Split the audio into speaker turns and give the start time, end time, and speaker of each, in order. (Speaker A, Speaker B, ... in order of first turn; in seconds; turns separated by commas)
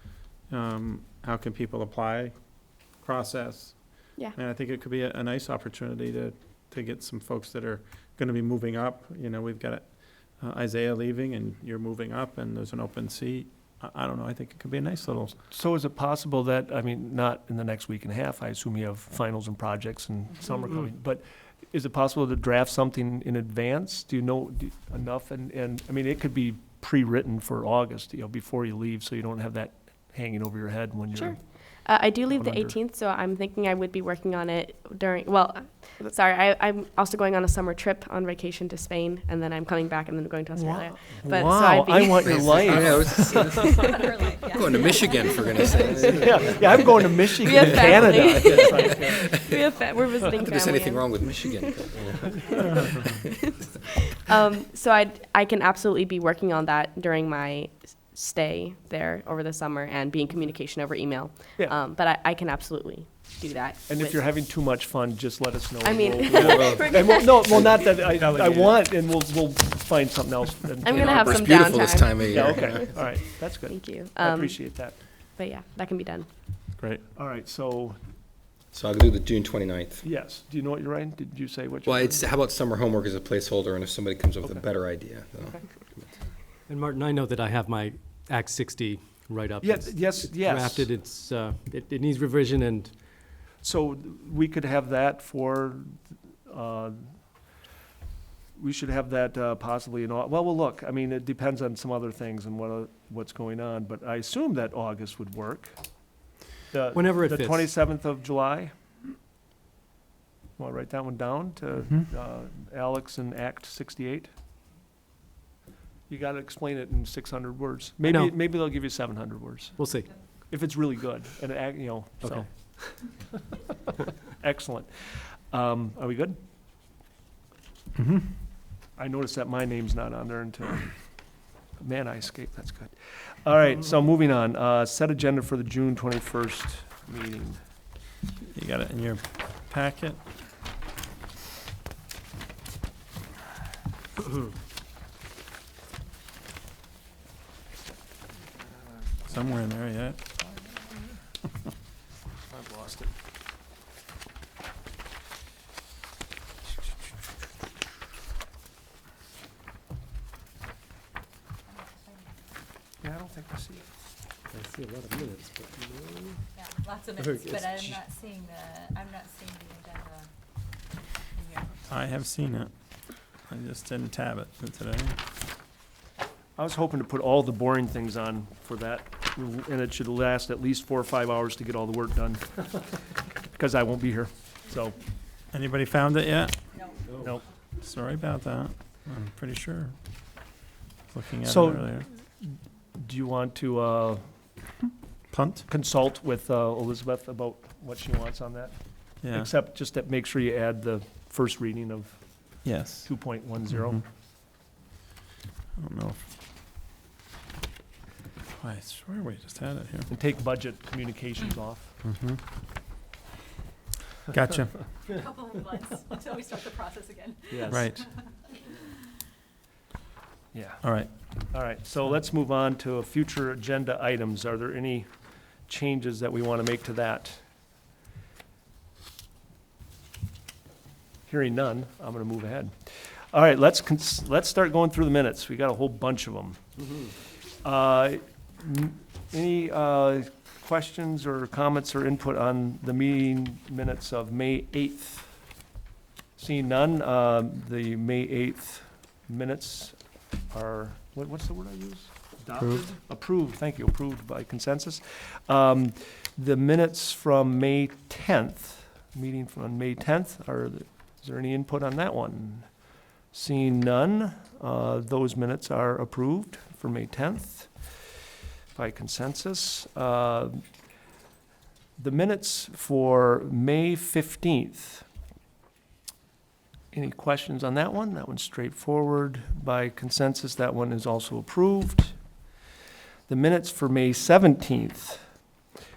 Speaker A: 0.5-2.3, Speaker A: 3.0-15.3, Speaker B: 15.5-31.4, Speaker C: 31.1-44.0, Speaker B: 32.3-32.8, Speaker B: 40.5-43.8, Speaker D: 42.2-43.8, Speaker E: 43.2-46.1, Speaker D: 44.5-46.9, Speaker C: 45.6-64.2, Speaker B: 46.1-49.3, Speaker D: 47.5-48.8, Speaker D: 50.3-52.5, Speaker B: 63.9-75.0, Speaker C: 65.8-67.7, Speaker D: 66.4-66.9, Speaker A: 68.1-68.7, Speaker C: 70.8-72.7, Speaker D: 70.9-73.0, Speaker C: 73.7-76.3, Speaker B: 77.1-78.0, Speaker D: 78.7-80.0, Speaker B: 80.0-82.3, Speaker D: 81.8-85.6, Speaker B: 84.4-84.7, Speaker F: 86.7-93.0, Speaker B: 89.6-90.9, Speaker B: 93.6-97.2, Speaker B: 98.5-105.7, Speaker B: 106.7-108.7, Speaker F: 106.9-107.7, Speaker B: 110.6-114.3, Speaker B: 116.1-119.8, Speaker F: 118.0-118.3, Speaker F: 119.8-120.1, Speaker B: 120.5-122.5, Speaker F: 122.2-122.9, Speaker B: 124.3-126.4, Speaker A: 128.0-128.3, Speaker B: 129.0-130.9, Speaker B: 131.8-137.6, Speaker A: 138.5-140.2, Speaker A: 149.3-150.2, Speaker B: 152.4-153.1, Speaker E: 161.7-162.4, Speaker B: 163.0-163.9, Speaker F: 164.5-166.4, Speaker E: 166.6-170.3, Speaker F: 167.2-168.0, Speaker E: 171.3-171.7, Speaker A: 171.9-172.7, Speaker A: 173.5-175.2, Speaker B: 176.6-182.7, Speaker B: 183.5-184.9, Speaker A: 185.5-186.5, Speaker A: 187.8-189.9, Speaker A: 191.1-192.1, Speaker B: 191.4-194.3, Speaker A: 195.3-195.7, Speaker B: 195.7-198.8, Speaker A: 199.2-199.5, Speaker B: 199.3-202.2, Speaker A: 202.6-203.1, Speaker B: 203.0-204.0, Speaker A: 205.8-206.2, Speaker A: 208.6-210.1, Speaker B: 210.1-211.9, Speaker A: 212.0-212.4, Speaker A: 214.3-214.8, Speaker E: 215.1-217.9, Speaker B: 217.5-217.8, Speaker A: 217.7-218.1, Speaker B: 220.5-220.8, Speaker A: 220.8-221.1, Speaker B: 221.5-225.1, Speaker B: 225.7-227.4, Speaker B: 231.3-236.6, Speaker B: 237.6-245.3, Speaker B: 246.4-262.7, Speaker B: 263.3-267.9, Speaker B: 268.7-270.6, Speaker B: 272.0-275.1, Speaker B: 276.9-282.2, Speaker B: 283.3-285.3